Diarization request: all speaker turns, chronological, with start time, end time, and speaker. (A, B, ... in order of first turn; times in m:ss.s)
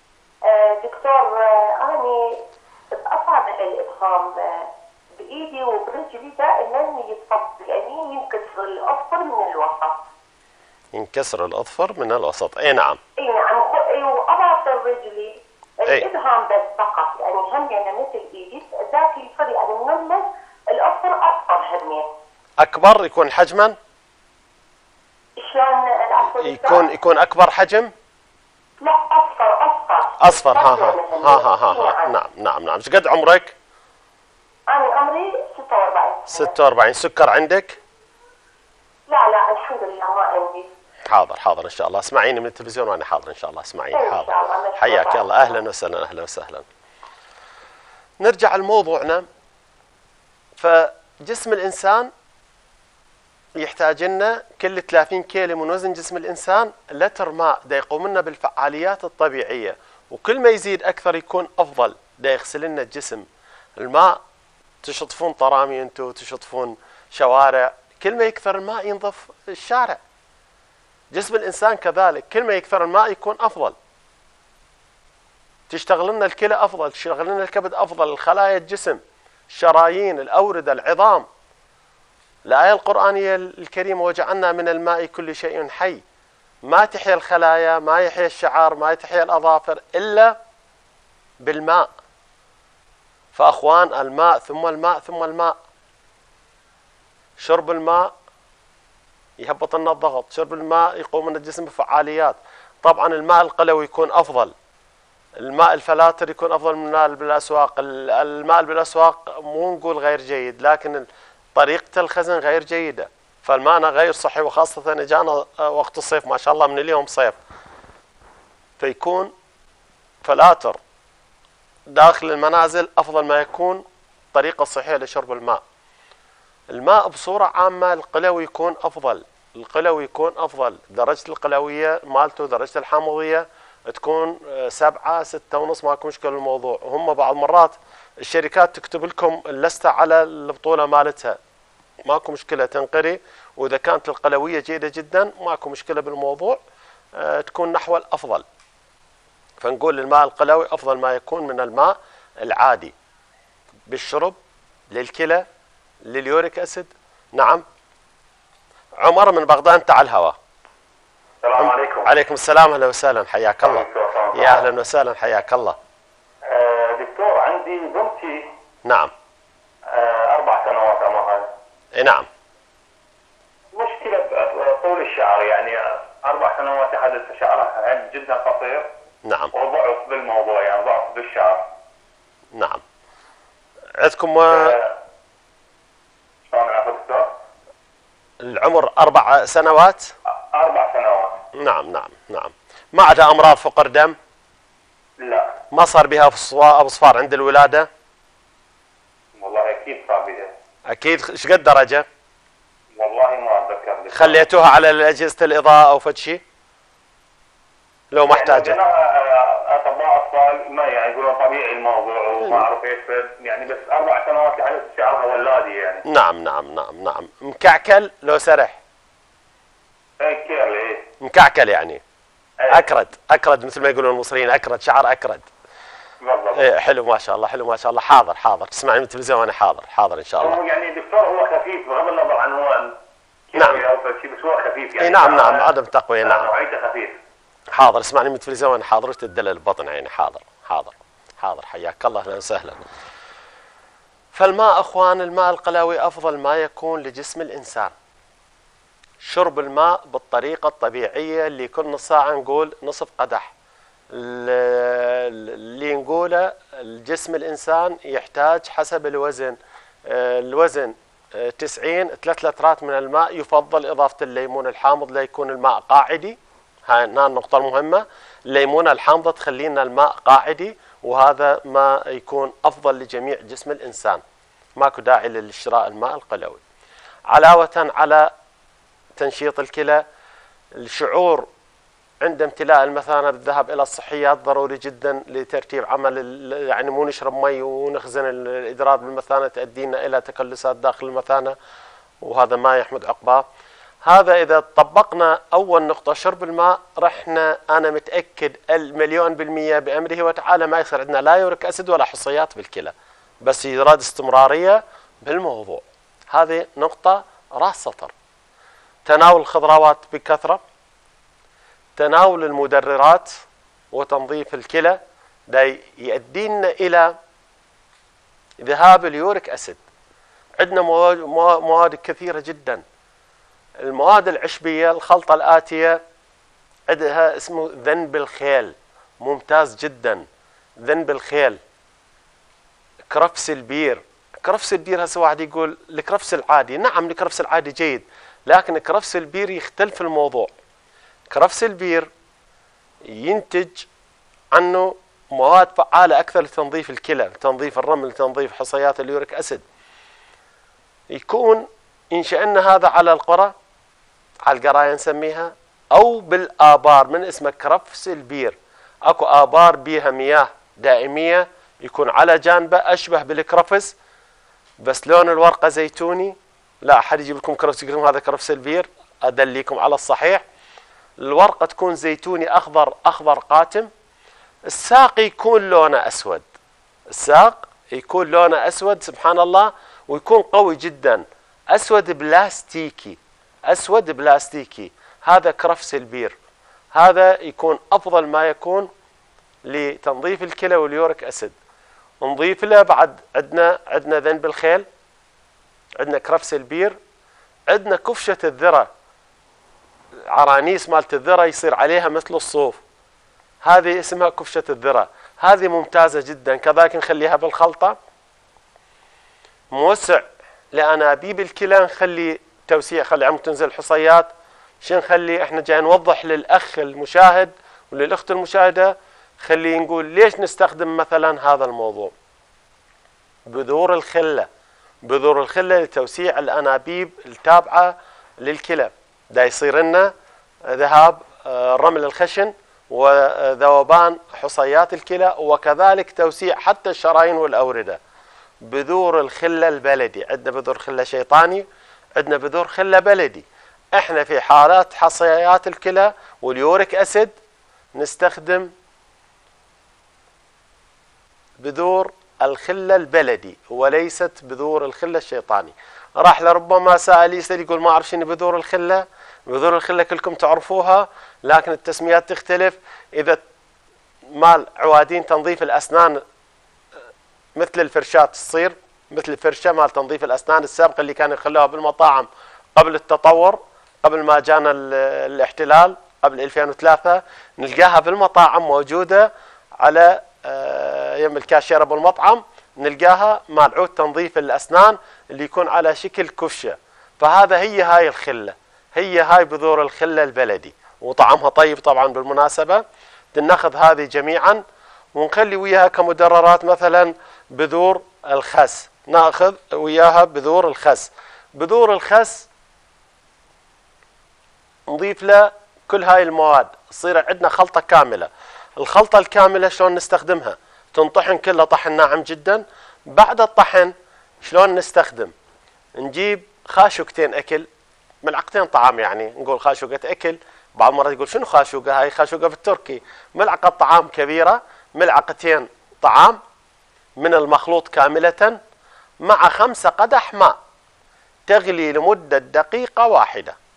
0:00.4-0:10.0 A
0:10.9-0:13.0 B
0:13.2-0:22.1 A
0:22.6-0:23.8 B
0:25.4-0:26.9 A
0:26.3-0:27.9 B
0:28.8-0:32.1 A
0:30.2-0:33.5 B
0:34.7-0:36.5 A
0:36.3-0:37.8 B
0:39.1-0:40.7 A
0:41.1-0:46.6 B
0:43.9-0:45.6 A
0:48.2-0:49.2 B
0:50.6-0:52.1 B
0:53.6-1:04.2 B
1:04.8-1:10.0 B
1:11.1-1:13.8 B
1:15.7-1:21.3 B
1:22.5-1:26.0 B
1:26.6-1:30.4 B
1:31.4-1:31.9 B
1:33.4-1:35.6 B
1:37.4-1:38.1 B
1:39.4-1:44.5 B
1:45.4-1:57.4 B
1:58.8-1:59.3 B
2:00.2-2:00.8 B
2:01.9-2:05.6 B
2:06.7-2:21.4 B
2:22.1-2:26.6 B
2:27.2-2:28.4 B
2:29.6-2:32.9 B
2:33.9-2:34.4 B
2:34.9-2:35.4 B
2:36.0-2:37.6 B
2:39.0-2:40.4 B
2:41.4-2:42.1 C
2:41.6-2:45.8 B
2:43.6-2:44.7 C
2:46.5-2:48.5 C
2:48.8-2:49.1 B
2:49.9-2:51.5 C
2:52.0-2:52.3 B
2:53.7-2:58.9 C
2:59.2-2:59.5 B
2:59.5-3:01.7 C
3:02.5-3:02.8 B
3:04.0-3:04.8 B
3:04.5-3:05.0 C
3:06.5-3:07.3 C
3:08.4-3:10.1 B
3:10.5-3:11.4 C
3:11.6-3:14.2 B
3:15.2-3:15.6 C
3:15.7-3:17.9 B
3:19.4-3:20.5 C
3:20.9-3:22.1 B
3:23.0-3:24.4 C
3:24.1-3:26.4 B
3:28.1-3:28.8 B
3:28.3-3:36.0 C
3:36.0-3:38.8 B
3:40.2-3:41.1 C
3:41.2-3:42.0 B
3:42.6-3:42.8 C
3:42.7-3:45.5 B
3:46.2-3:46.6 C
3:46.5-3:50.6 B
3:50.4-3:53.0 C
3:53.5-3:55.7 C
3:53.6-3:53.8 B
3:55.0-3:56.5 B
3:56.2-3:57.2 C
3:57.7-4:02.8 B
4:04.3-4:07.9 B
4:09.2-4:13.5 B
4:14.1-4:34.2 B
4:34.8-4:36.6 B
4:37.3-4:38.3 B
4:39.2-4:40.0 B
4:40.8-4:41.5 B
4:42.2-4:51.6 B
4:52.2-4:53.4 B
4:54.0-5:08.1 B
5:09.1-5:10.6 B
5:12.0-5:13.3 B
5:13.9-5:17.1 B
5:18.6-5:19.8 B
5:20.6-5:22.8 B
5:23.8-5:26.0 B
5:26.9-5:30.2 B
5:30.8-5:31.6 B
5:33.1-5:40.5 B
5:41.3-5:42.1 B
5:43.1-5:43.9 B
5:44.5-5:49.6 B
5:51.1-5:53.5 B
5:54.4-6:03.9 B
6:04.8-6:10.4 B
6:11.2-6:13.9 B
6:14.7-6:16.5 B
6:17.1-6:26.4 B
6:26.9-6:28.9 B
6:29.7-6:31.5 B
6:32.2-6:34.8 B
6:36.0-6:37.0 B
6:37.7-6:38.9 B
6:40.3-6:42.8 B
6:43.6-6:48.0 B
6:49.7-6:54.3 B
6:54.8-7:02.1 B
7:03.5-7:04.5 B
7:05.0-7:10.1 B
7:10.7-7:18.0 B
7:18.6-7:21.6 B
7:22.2-7:27.3 B
7:28.0-7:28.7 B
7:31.6-7:43.4 B
7:44.3-7:46.2 B
7:47.6-7:59.3 B
7:59.8-8:14.6 B
8:15.2-8:22.5 B
8:24.9-8:35.3 B
8:36.0-8:37.7 B
8:38.2-8:46.4 B
8:47.2-8:48.6 B
8:49.2-8:50.6 B
8:51.5-8:53.6 B